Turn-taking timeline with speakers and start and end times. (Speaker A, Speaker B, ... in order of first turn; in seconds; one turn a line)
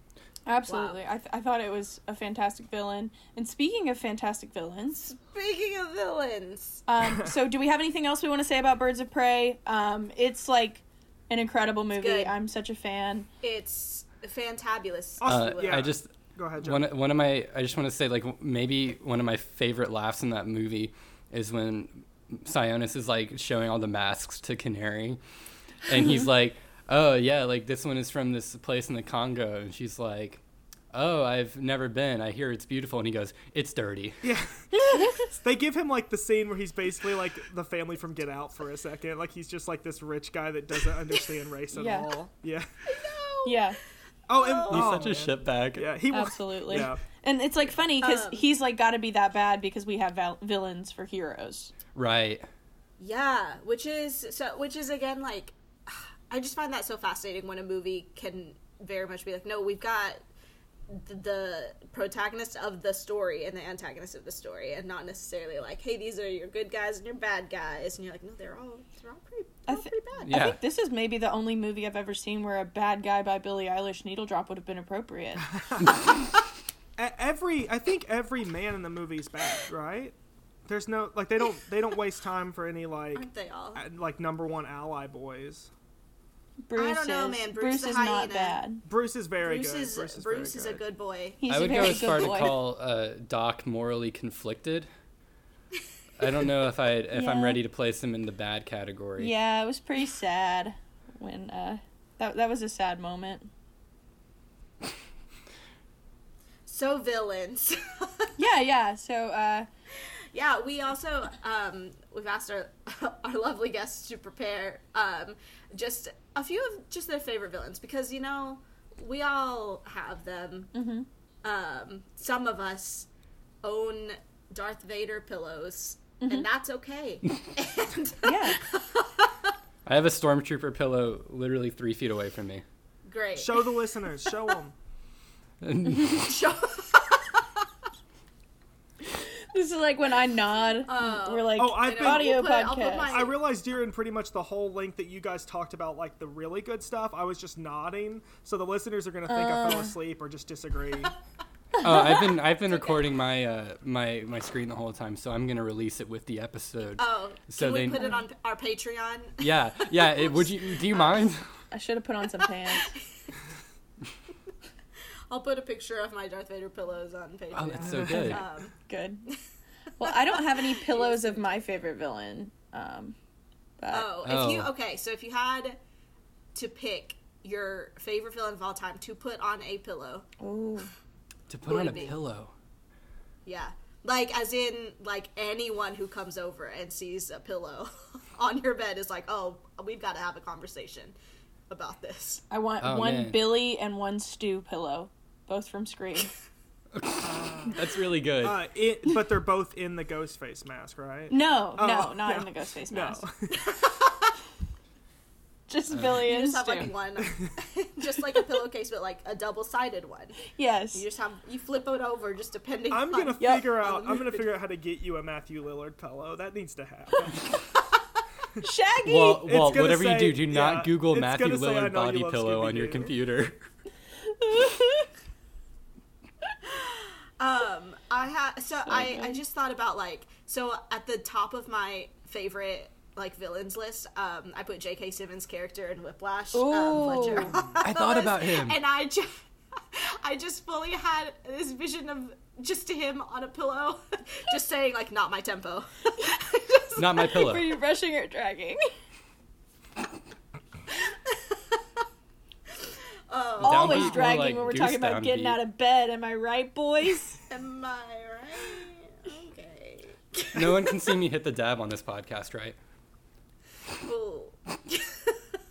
Speaker A: 0.5-5.1
Speaker B: 0.7-1.0
Speaker B: 5.2-6.8
Speaker A: 6.9-13.3
Speaker C: 7.0-7.3
Speaker B: 11.9-12.3
Speaker B: 13.4-15.9
Speaker C: 15.2-16.9
Speaker D: 15.3-25.2
Speaker D: 25.9-30.4
Speaker A: 26.0-26.2
Speaker D: 30.9-34.2
Speaker C: 34.2-34.7
Speaker A: 34.9-35.2
Speaker C: 35.2-42.7
Speaker A: 41.7-42.1
Speaker B: 42.9-43.8
Speaker A: 43.4-43.8
Speaker C: 44.3-47.0
Speaker B: 44.3-45.1
Speaker D: 44.7-45.9
Speaker A: 46.1-51.7
Speaker B: 48.0-48.5
Speaker D: 51.9-52.5
Speaker B: 53.0-60.2
Speaker B: 60.9-70.5
Speaker A: 69.7-75.6
Speaker D: 70.2-70.6
Speaker C: 75.5-76.0
Speaker C: 77.0-80.1
Speaker C: 80.7-85.7
Speaker B: 83.1-83.8
Speaker A: 86.7-88.8
Speaker B: 86.8-88.6
Speaker C: 88.8-90.8
Speaker B: 89.4-92.0
Speaker A: 91.4-92.6
Speaker D: 91.5-94.9
Speaker D: 96.2-99.3
Speaker A: 97.1-97.6
Speaker A: 99.2-103.5
Speaker B: 106.7-108.3
Speaker A: 108.4-109.7
Speaker B: 110.3-120.7
Speaker A: 120.7-121.1
Speaker B: 121.4-123.1
Speaker B: 123.6-129.5
Speaker A: 128.2-128.6
Speaker D: 129.8-132.6
Speaker B: 133.1-133.7
Speaker C: 133.3-134.7
Speaker D: 135.6-136.4
Speaker B: 136.2-137.7
Speaker A: 139.1-143.2
Speaker B: 140.8-143.4
Speaker C: 141.6-142.4
Speaker C: 143.1-151.1
Speaker A: 149.3-149.9
Speaker A: 151.8-152.2
Speaker D: 151.8-158.0
Speaker B: 152.7-153.0
Speaker B: 157.0-161.3
Speaker A: 157.9-158.2
Speaker D: 159.4-161.4
Speaker A: 161.7-162.9
Speaker B: 162.4-163.0
Speaker B: 165.3-168.8
Speaker D: 167.5-168.4
Speaker A: 168.1-169.3
Speaker A: 170.0-173.2
Speaker B: 170.0-171.7
Speaker A: 173.8-174.1
Speaker B: 173.9-175.8
Speaker D: 174.2-174.7
Speaker B: 176.5-180.3
Speaker A: 180.4-180.9
Speaker D: 181.5-182.5
Speaker B: 181.6-182.1
Speaker B: 183.4-191.1
Speaker B: 191.7-192.4
Speaker A: 192.5-196.3
Speaker D: 192.8-193.6
Speaker D: 196.9-198.6
Speaker C: 197.2-197.8
Speaker C: 198.4-203.7
Speaker A: 201.3-203.2
Speaker B: 203.5-204.3
Speaker A: 205.7-206.9
Speaker D: 205.9-206.3
Speaker B: 206.2-214.5
Speaker A: 210.5-211.0
Speaker C: 212.9-217.5
Speaker A: 213.4-213.7
Speaker A: 218.6-219.4
Speaker D: 219.0-223.6
Speaker C: 219.4-223.1
Speaker A: 224.2-225.1
Speaker B: 226.7-239.4
Speaker A: 228.9-229.4
Speaker A: 236.5-237.6
Speaker D: 237.8-238.8
Speaker B: 239.9-247.4
Speaker D: 246.9-247.7
Speaker A: 247.2-248.8
Speaker B: 251.1-251.8
Speaker B: 253.3-254.3
Speaker A: 253.6-257.4
Speaker D: 253.6-255.6
Speaker B: 257.5-261.1
Speaker D: 260.5-262.8
Speaker B: 264.0-265.4